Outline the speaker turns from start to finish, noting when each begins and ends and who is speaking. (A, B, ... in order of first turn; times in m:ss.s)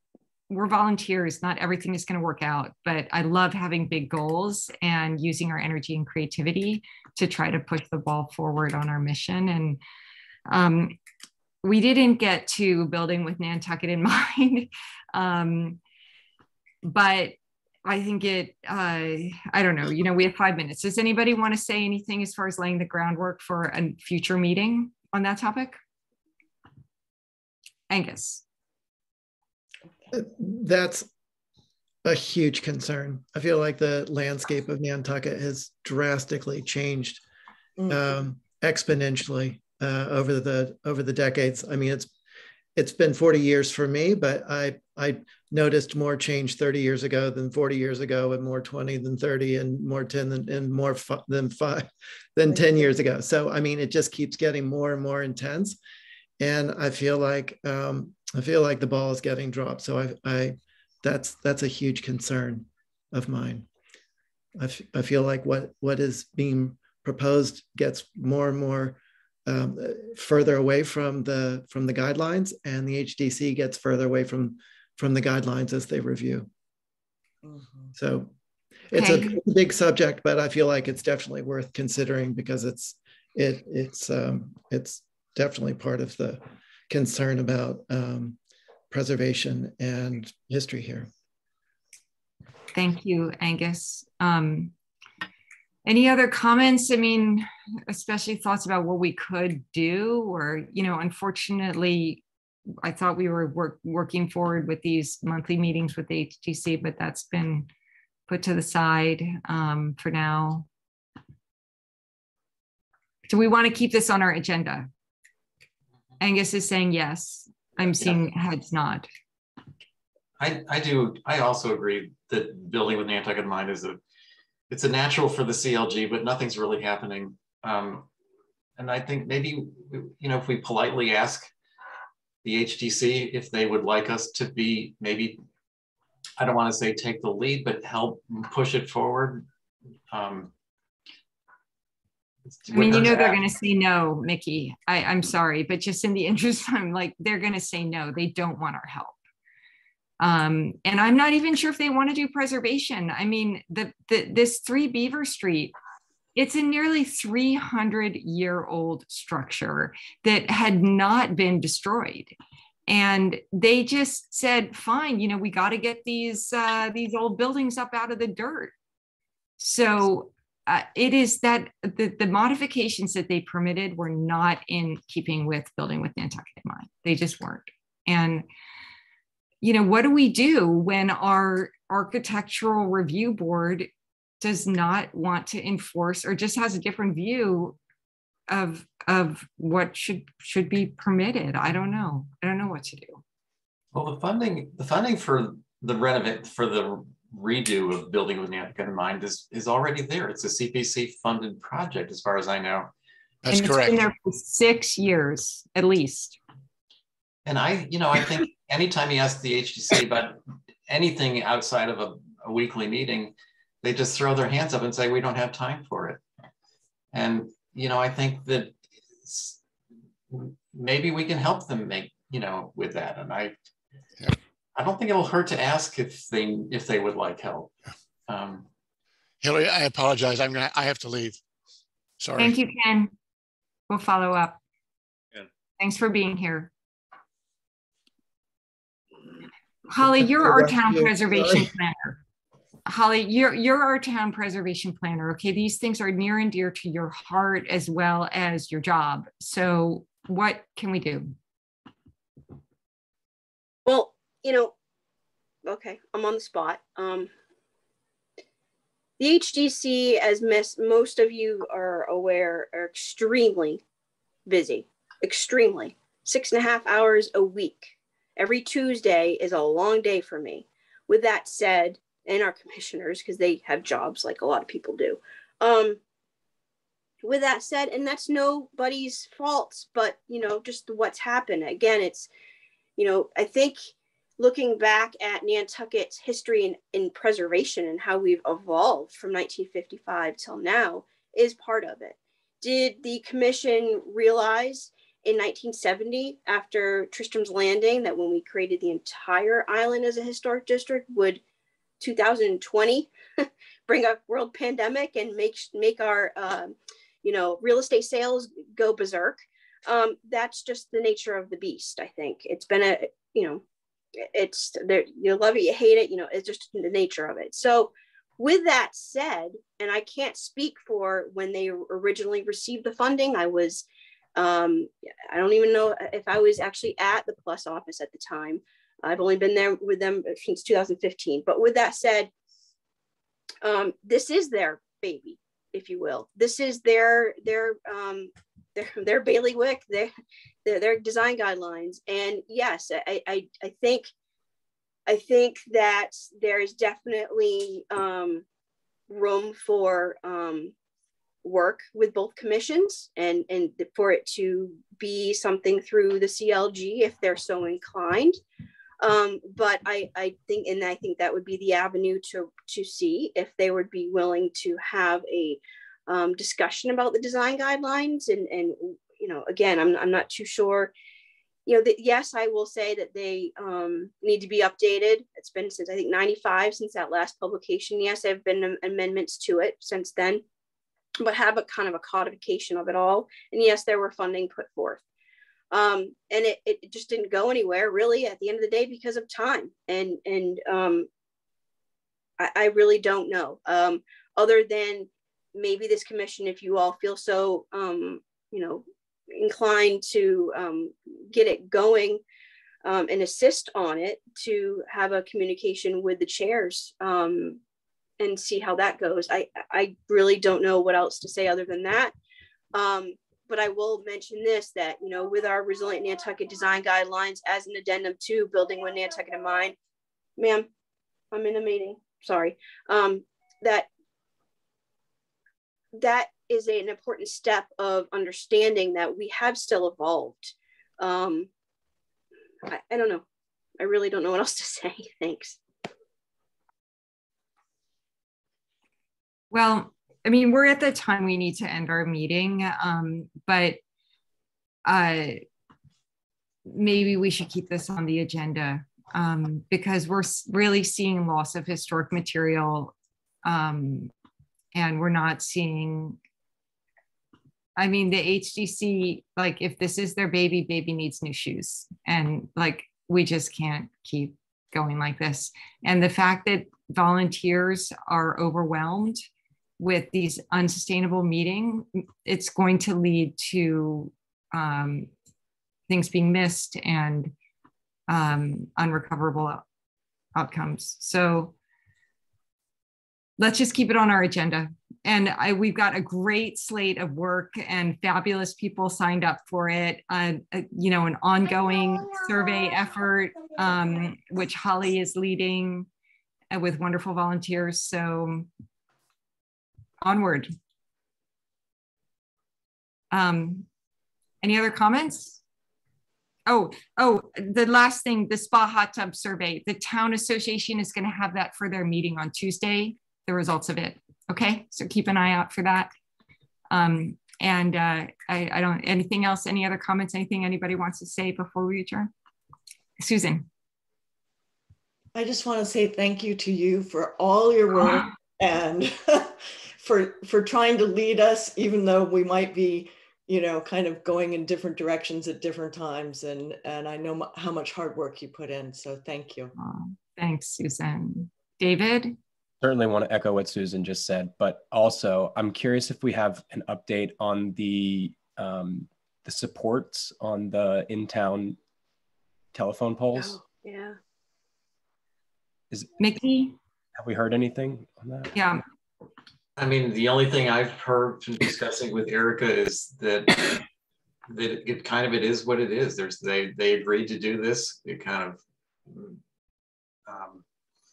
0:00.5-0:09.8 A
0:10.5-0:11.0 A
0:11.6-0:15.8 A
0:16.8-0:17.3 A
0:17.8-0:25.8 A
0:27.9-0:28.4 A
0:30.1-0:31.1 B
0:32.0-0:37.2 B
0:37.8-0:38.2 C
0:37.9-0:42.1 B
0:42.8-0:55.8 B
0:52.5-0:52.7 C
0:56.4-1:03.7 B
1:04.6-1:16.5 B
1:17.4-1:17.9 C
1:18.0-1:18.3 B
1:18.9-1:28.4 B
1:19.0-1:19.4 A
1:28.9-1:31.1 B
1:32.7-1:34.7 A
1:35.8-1:42.2 A
1:42.8-1:47.7 A
1:48.3-1:50.7 A
1:53.3-1:54.9 A
1:56.2-1:59.1 A
2:00.4-2:04.0 D
2:04.7-2:08.1 D
2:08.8-2:11.5 D
2:12.4-2:15.4 D
2:16.4-2:19.5 D
2:20.1-2:20.5 D
2:22.5-2:23.4 D
2:22.7-2:29.2 A
2:30.2-2:35.7 A
2:36.4-2:42.3 A
2:42.9-2:48.7 A
2:49.6-2:58.4 A
2:59.6-3:03.9 A
3:04.4-3:07.8 A
3:08.5-3:13.2 A
3:13.9-3:22.9 D
3:23.4-3:24.0 E
3:23.5-3:26.4 A
3:27.4-3:36.2 D
3:37.1-3:39.6 D
3:40.3-3:43.5 D
3:44.7-3:47.7 D
3:48.3-3:48.7 D
3:49.4-3:51.4 E
3:52.2-3:52.5 E
3:52.4-3:53.1 A
3:53.9-3:54.6 A
3:55.8-3:56.7 A
3:59.9-4:02.2 A
4:00.0-4:01.7 B
4:02.8-4:11.3 A
4:13.8-4:14.7 F
4:15.6-4:17.3 F
4:19.2-4:23.8 F
4:24.5-4:36.0 F
4:37.2-4:42.3 F
4:43.0-5:01.4 F
5:02.0-5:03.1 F
5:03.9-5:13.6 F
5:14.2-5:32.3 F
5:33.6-5:40.1 F
5:40.6-5:44.1 F
5:45.1-5:48.4 F
5:49.1-5:50.7 F
5:51.4-5:58.4 F
5:59.0-6:10.9 F
6:11.6-6:20.4 F
6:21.2-6:25.0 F
6:25.7-6:31.1 F
6:32.4-6:42.2 F
6:42.8-6:47.6 F
6:48.2-6:52.1 F
6:52.7-6:59.7 F
7:00.4-7:00.7 F
7:01.3-7:03.9 F
7:05.9-7:11.5 F
7:12.7-7:13.2 F
7:13.8-7:15.6 F
7:19.5-7:23.8 A
7:24.8-7:25.4 A
7:26.6-7:32.9 A
7:33.4-7:34.1 A
7:34.7-7:36.2 A
7:37.8-7:49.2 A
7:49.8-7:55.1 A
7:55.9-7:57.3 A
7:58.1-7:59.6 A
8:00.3-8:01.5 A
8:03.4-8:15.9 A
8:16.5-8:18.5 A
8:20.0-8:20.5 A
8:23.1-8:23.6 A
8:24.4-8:25.4 A
8:26.5-8:35.9 A
8:36.7-8:42.1 A
8:43.0-8:43.5 A
8:45.1-8:59.5 C
8:59.6-9:02.2 A
9:02.6-9:11.6 G
9:12.5-9:13.4 G
9:13.1-9:14.0 F
9:16.0-9:16.6 A
9:17.0-9:18.3 G
9:18.3-9:18.6 A
9:19.6-9:23.6 D
9:24.3-9:29.2 D
9:30.0-9:30.4 D